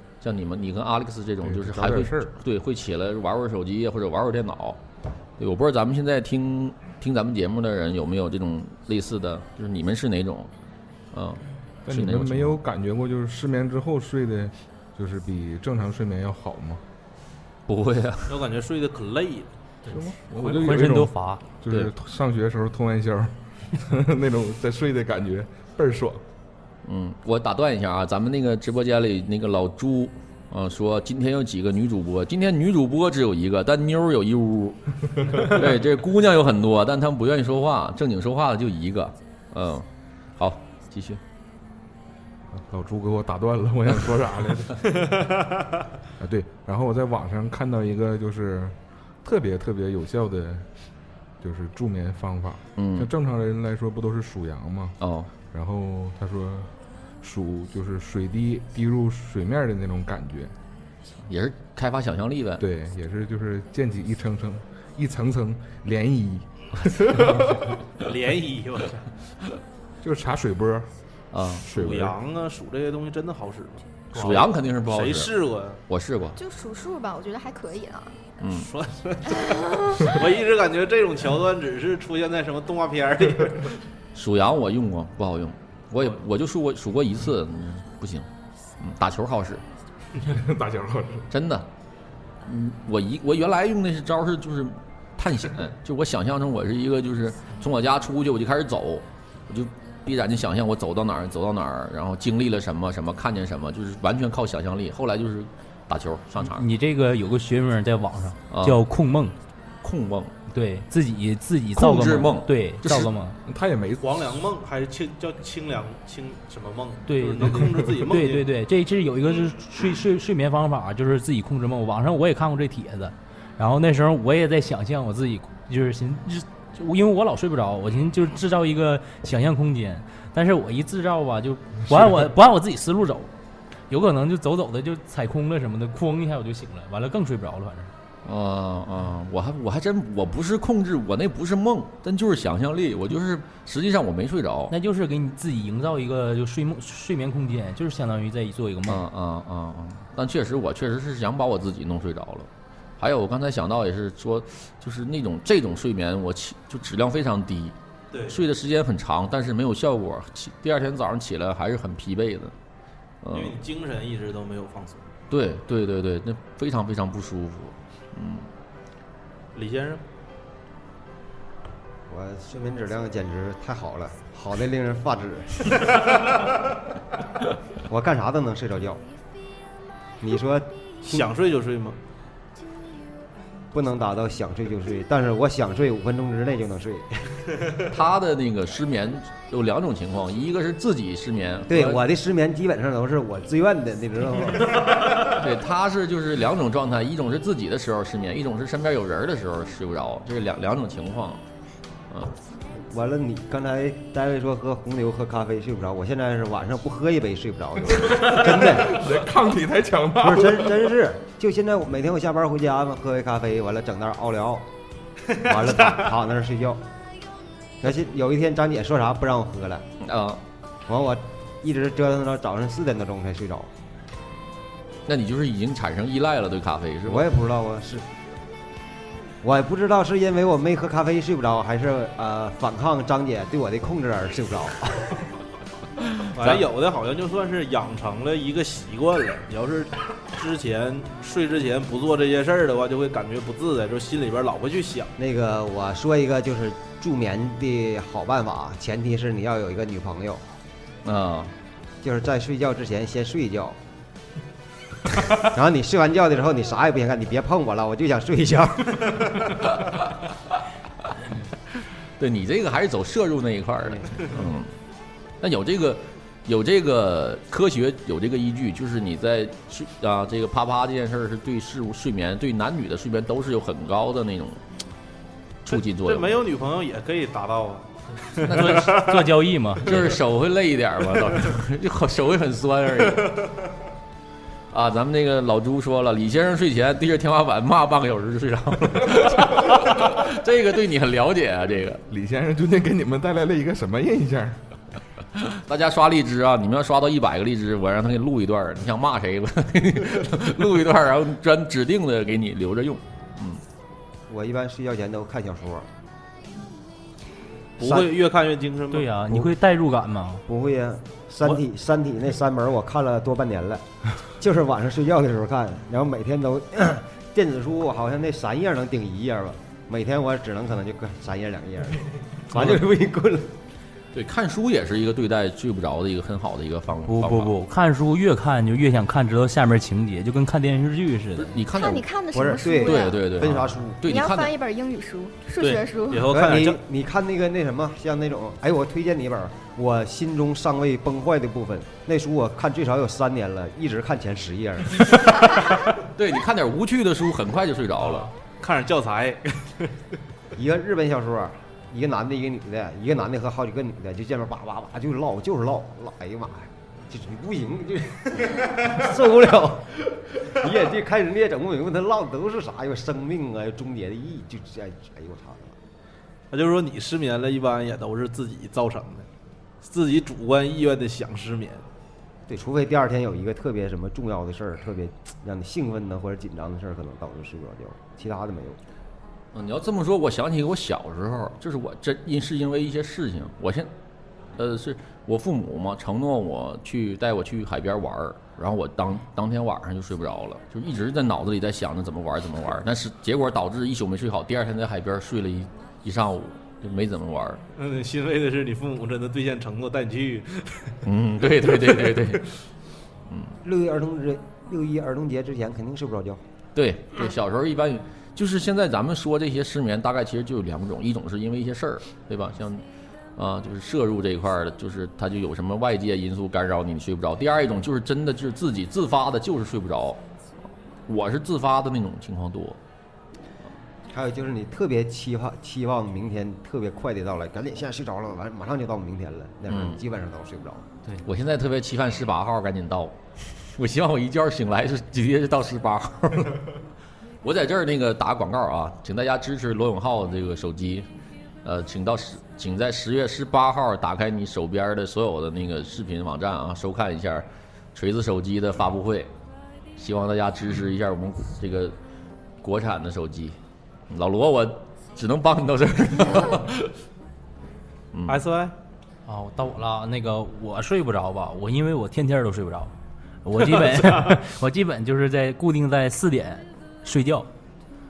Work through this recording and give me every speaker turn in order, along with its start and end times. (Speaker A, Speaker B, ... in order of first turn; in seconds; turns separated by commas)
Speaker A: 0.2-4.8, Speaker B: 1.4-2.3, Speaker A: 5.4-10.5, Speaker A: 11.1-12.6, Speaker B: 11.8-16.8, Speaker A: 17.7-18.4, Speaker C: 18.3-19.5, Speaker B: 19.9-26.2, Speaker D: 20.3-21.4, Speaker A: 26.8-41.2, Speaker B: 42.5-44.9, Speaker C: 44.9-45.6, Speaker B: 46.2-50.7, Speaker B: 51.4-55.0, Speaker A: 52.8-53.1, Speaker A: 55.0-55.3, Speaker B: 55.5-60.5, Speaker A: 61.3-62.6, Speaker B: 62.6-67.8, Speaker C: 68.0-69.1, Speaker B: 70.0-70.9, Speaker A: 71.3-71.7, Speaker C: 71.7-75.8, Speaker B: 71.7-72.2, Speaker A: 74.1-75.3, Speaker A: 75.9-76.4, Speaker E: 76.4-78.2, Speaker A: 78.4-78.7, Speaker C: 78.5-83.8, Speaker E: 79.3-80.1, Speaker A: 84.1-88.3, Speaker A: 88.8-89.6, Speaker B: 90.1-91.3, Speaker A: 91.3-91.7, Speaker A: 92.5-106.7, Speaker D: 106.4-109.3, Speaker A: 108.5-108.8, Speaker A: 109.8-110.3, Speaker D: 110.5-113.4, Speaker A: 111.8-113.1, Speaker B: 113.5-114.2, Speaker C: 114.0-118.5, Speaker D: 117.1-133.3, Speaker B: 117.4-118.0, Speaker D: 133.9-137.9, Speaker A: 138.2-144.7, Speaker D: 144.7-149.0, Speaker A: 148.9-157.8, Speaker C: 158.1-158.4, Speaker A: 158.3-162.5, Speaker A: 163.2-163.6, Speaker C: 163.3-165.1, Speaker A: 165.3-168.5, Speaker C: 169.5-170.0, Speaker F: 172.1-175.9, Speaker F: 177.9-179.0, Speaker F: 180.2-181.3, Speaker C: 181.0-182.0, Speaker F: 183.7-187.3, Speaker A: 187.9-192.0, Speaker F: 191.7-195.1, Speaker A: 195.2-201.4, Speaker F: 202.8-209.2, Speaker B: 208.0-210.9, Speaker F: 210.2-214.7, Speaker F: 215.3-216.8, Speaker F: 217.8-219.8, Speaker A: 220.0-220.4, Speaker F: 220.9-223.7, Speaker A: 225.1-227.3, Speaker F: 227.1-228.0, Speaker F: 229.4-235.2, Speaker C: 236.3-245.2, Speaker F: 245.2-250.4, Speaker A: 251.0-251.5, Speaker F: 252.0-253.8, Speaker F: 255.3-259.6, Speaker A: 262.2-264.7, Speaker F: 263.9-264.4, Speaker A: 265.4-274.6, Speaker A: 275.6-276.3, Speaker C: 276.0-279.2, Speaker A: 278.4-279.0, Speaker D: 278.4-279.9, Speaker C: 279.9-280.2, Speaker A: 279.9-283.4, Speaker C: 283.1-283.6, Speaker A: 284.7-292.0, Speaker B: 292.1-294.6, Speaker A: 295.4-303.6, Speaker F: 304.3-305.9, Speaker F: 307.8-308.1, Speaker C: 307.8-309.2, Speaker D: 308.9-310.4, Speaker F: 310.5-323.5, Speaker A: 324.1-327.5, Speaker D: 327.1-331.6, Speaker A: 331.4-332.1, Speaker E: 331.7-333.2, Speaker F: 332.3-334.0, Speaker A: 332.8-334.5, Speaker E: 334.0-336.3, Speaker C: 335.6-336.8, Speaker F: 336.3-345.2, Speaker A: 346.0-348.3, Speaker C: 348.0-349.9, Speaker F: 350.5-365.7, Speaker C: 366.5-369.3, Speaker C: 369.8-371.9, Speaker F: 372.5-378.8, Speaker A: 379.5-383.9, Speaker A: 384.6-397.6, Speaker C: 397.7-401.0, Speaker A: 401.0-402.5, Speaker C: 401.6-402.1, Speaker A: 403.3-403.6, Speaker F: 403.6-406.4, Speaker A: 406.7-412.8, Speaker A: 413.4-420.2, Speaker A: 421.1-422.8, Speaker F: 424.1-430.9, Speaker A: 429.7-430.0, Speaker A: 431.2-436.7, Speaker A: 437.4-441.1, Speaker A: 441.6-449.3, Speaker A: 450.0-451.9, Speaker A: 452.6-453.6, Speaker A: 454.1-456.9, Speaker A: 458.1-458.4, Speaker C: 458.3-458.7, Speaker D: 459.2-462.9, Speaker D: 463.4-467.5, Speaker C: 463.9-464.3